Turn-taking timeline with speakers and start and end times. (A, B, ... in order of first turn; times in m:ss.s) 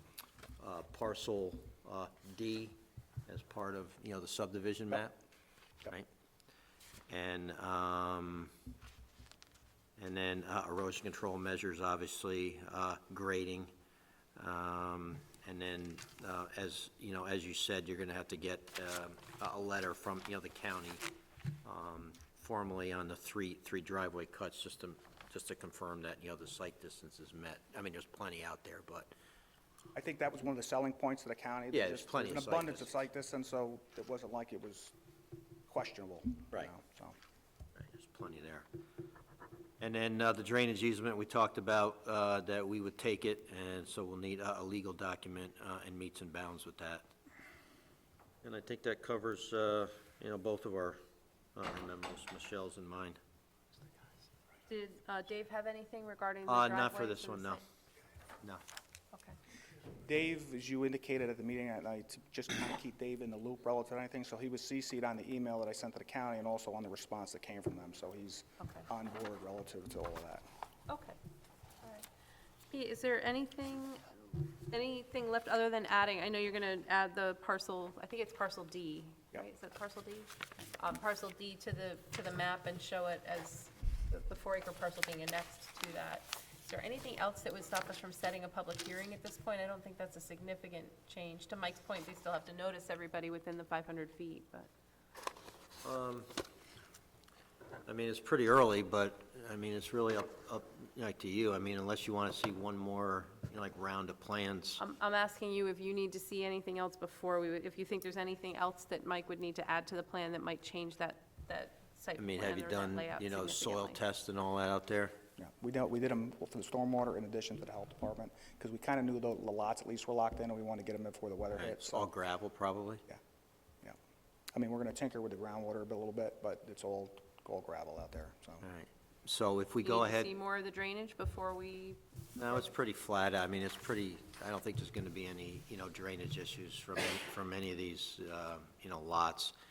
0:00.6-0:02.8 A
0:03.3-0:05.2 A
0:07.1-0:08.5 A
0:10.0-0:13.7 A
0:14.4-0:21.0 A
0:21.6-0:29.1 A
0:30.0-0:34.9 B
0:31.7-0:32.9 A
0:35.7-0:37.1 B
0:37.8-0:38.7 A
0:39.8-0:47.1 A
0:48.4-0:51.0 A
0:51.6-0:53.2 A
0:54.7-0:57.6 C
0:56.5-0:57.6 A
1:00.0-1:10.4 B
1:08.6-1:08.9 C
1:10.9-1:11.2 C
1:12.7-1:14.1 C
1:14.7-1:34.7 C
1:35.8-1:36.3 A
1:37.9-1:44.8 A
1:44.8-1:54.0 C
1:52.2-1:55.1 A
1:55.4-2:02.1 B
2:01.5-2:03.0 A
2:04.5-2:08.6 B
2:08.6-2:10.3 A
2:09.8-2:12.7 C
2:12.4-2:19.5 A